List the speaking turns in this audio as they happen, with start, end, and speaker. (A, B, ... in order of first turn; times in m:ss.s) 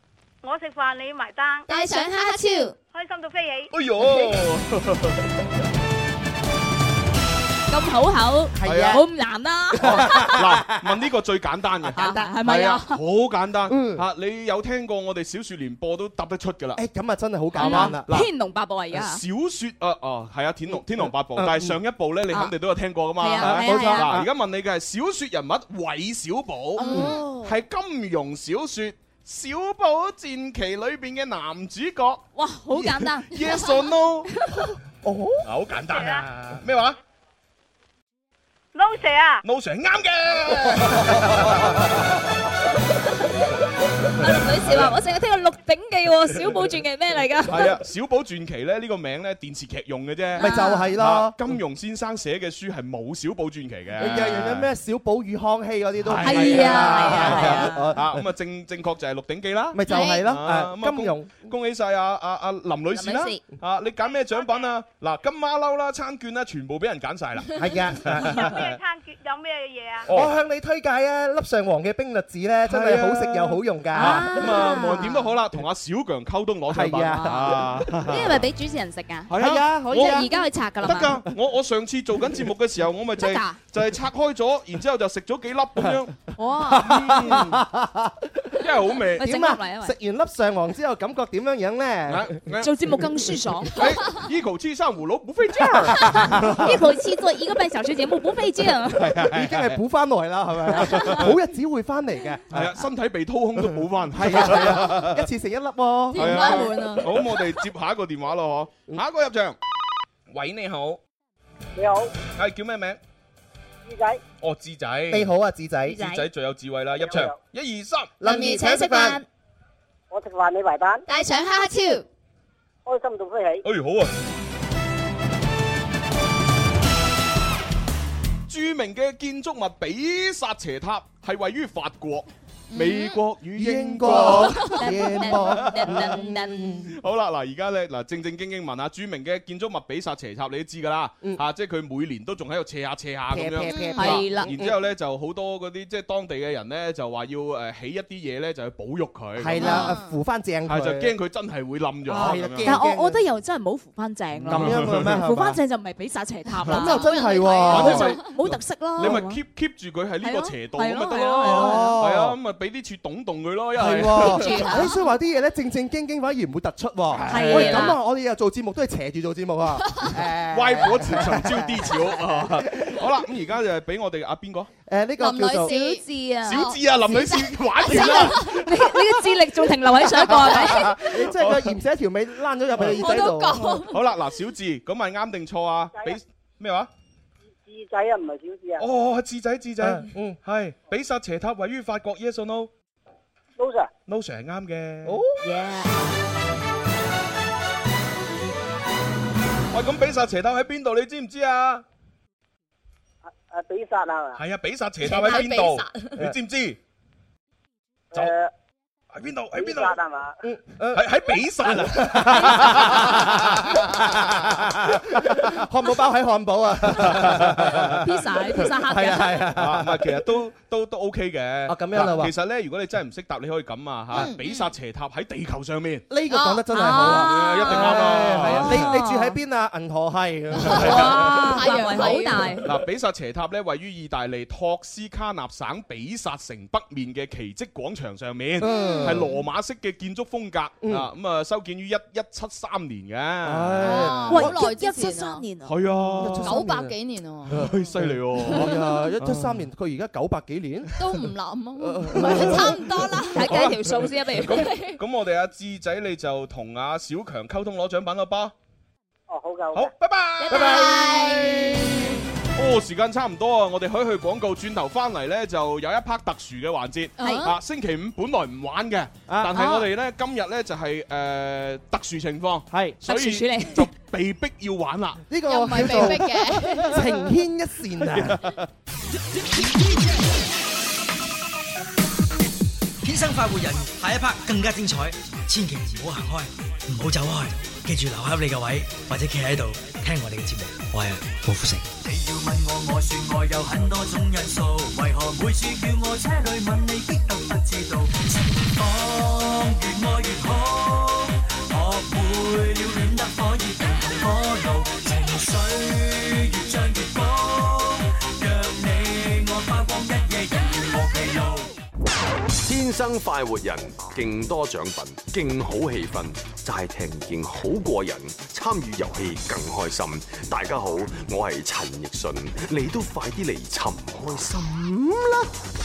0:00.4-0:01.7 A
0:01.7-0:02.7 B
0:01.7-0:02.7 C
0:02.9-0:03.7 A
0:03.7-0:05.3 D
0:07.7-0:10.4 C
0:08.6-0:09.0 E
0:08.6-0:09.0 D
0:09.7-0:11.0 E
0:09.8-0:16.8 D
0:11.9-0:13.0 C
0:13.7-0:14.0 E
0:16.8-0:18.1 E
0:17.5-0:18.3 D
0:17.6-0:19.2 C
0:18.9-0:32.2 D
0:20.7-0:21.8 E
0:22.3-0:22.6 C
0:23.2-0:24.2 C
0:23.4-0:24.3 E
0:26.8-0:27.6 C
0:26.9-0:27.3 E
0:32.4-0:33.9 C
0:33.2-0:34.3 D
0:35.0-0:35.5 E
0:35.4-0:37.0 D
0:35.9-0:36.3 A
0:38.8-0:39.4 A
0:39.4-0:42.0 D
0:41.1-0:41.6 E
0:44.2-0:47.7 C
0:44.2-0:45.0 D
0:47.5-0:54.7 D
0:50.4-0:51.4 E
0:50.4-0:50.9 C
0:54.0-0:58.2 E
0:56.0-1:08.7 D
0:56.2-0:58.0 C
0:59.7-1:01.5 E
0:59.9-1:00.2 B
1:02.9-1:03.4 C
1:04.0-1:04.8 A
1:07.6-1:08.6 E
1:08.4-1:10.1 A
1:10.1-1:10.3 D
1:10.1-1:14.8 E
1:12.7-1:18.3 D
1:13.9-1:15.3 C
1:16.7-1:18.4 E
1:18.0-1:21.2 C
1:19.3-1:27.6 D
1:19.3-1:20.3 E
1:23.2-1:23.6 C
1:26.4-1:27.2 C
1:26.7-1:28.6 E
1:28.6-1:29.4 D
1:29.2-1:29.9 C
1:29.2-1:32.4 E
1:32.1-1:32.8 D
1:32.6-1:34.2 C
1:33.7-1:36.7 D
1:35.9-1:39.2 C
1:36.0-1:36.7 E
1:38.9-1:39.8 D
1:39.3-1:42.8 E
1:40.7-1:41.3 D
1:42.5-1:45.2 D
1:44.1-1:46.7 E
1:46.1-1:47.1 B
1:46.2-1:49.6 D
1:50.3-1:51.0 D
1:51.8-1:52.1 F
1:52.3-1:53.0 D
1:53.8-1:54.2 F
1:54.4-1:55.3 D
1:55.1-1:56.1 E
1:55.9-1:56.3 C
1:56.0-1:58.2 D
1:57.0-1:57.4 F
1:58.2-1:59.2 E
1:58.2-1:59.2 C
2:00.1-2:01.0 F
2:01.1-2:02.0 B
2:02.9-2:03.6 F
2:03.6-2:04.1 D
2:08.5-2:16.2 D
2:12.7-2:13.2 B
2:13.6-2:17.0 E
2:14.2-2:16.8 C
2:16.8-2:29.9 D
2:23.3-2:24.8 E
2:23.7-2:24.4 B
2:23.9-2:24.5 C
2:29.4-2:31.2 E
2:29.6-2:30.2 B
2:30.7-2:32.7 D
2:32.1-2:33.2 E
2:32.6-2:37.2 C
2:34.4-2:35.2 D
2:34.5-2:35.6 E
2:36.6-2:38.2 E
2:36.7-2:38.2 B
2:37.7-2:39.4 C
2:37.7-2:44.7 D
2:40.2-2:42.0 C
2:41.4-2:42.4 E
2:43.8-2:53.0 E
2:44.2-2:45.0 C
2:47.1-2:48.0 D
2:47.3-2:48.0 C
2:50.5-2:54.7 D
2:54.9-2:55.8 E
2:55.2-2:56.8 B
2:55.6-3:01.1 C
2:56.4-2:59.3 D
2:57.9-2:58.5 B
3:00.1-3:01.8 D
3:00.3-3:03.8 E
3:02.8-3:03.1 D
3:02.9-3:04.0 B
3:03.8-3:06.9 D
3:07.7-3:08.8 F
3:08.8-3:12.7 D
3:09.8-3:10.4 E
3:13.6-3:13.9 F
3:14.1-3:15.2 D
3:15.0-3:15.5 E
3:15.4-3:15.9 C
3:19.7-3:21.8 D
3:23.5-3:24.4 F
3:24.4-3:26.8 D
3:25.0-3:26.1 C
3:28.1-3:28.5 F
3:29.1-3:30.0 D
3:29.6-3:30.4 F
3:30.4-3:40.2 E
3:30.9-3:34.0 D
3:37.0-3:38.0 D
3:38.0-3:39.5 C
3:39.5-3:46.1 D
3:41.7-3:42.3 E
3:44.2-3:44.4 B
3:46.1-3:51.7 E
3:46.3-3:47.2 B
3:46.7-3:49.4 C
3:47.2-3:49.0 D
3:50.6-3:52.6 B
3:50.7-3:51.3 D
3:50.7-3:52.7 C
3:52.6-4:04.5 D
3:58.6-3:59.3 E
3:58.7-3:59.1 B
4:00.8-4:01.1 E
4:03.4-4:04.6 E
4:03.8-4:05.4 B
4:04.3-4:05.8 C
4:05.6-4:06.6 D
4:06.1-4:11.0 E
4:06.4-4:07.7 B
4:07.5-4:09.7 D
4:11.0-4:13.5 B
4:11.8-4:12.8 E
4:12.1-4:18.5 D
4:12.5-4:15.0 C
4:19.3-4:19.9 F
4:19.8-4:36.2 D
4:20.4-4:21.8 C
4:27.2-4:27.6 B
4:27.2-4:27.5 C
4:29.3-4:29.9 E
4:32.7-4:33.0 E
4:33.1-4:33.9 C
4:35.3-4:38.5 E
4:35.4-4:37.0 B
4:38.0-4:38.6 D
4:43.1-4:51.8 G
4:52.0-5:11.7 H
5:12.6-5:24.6 I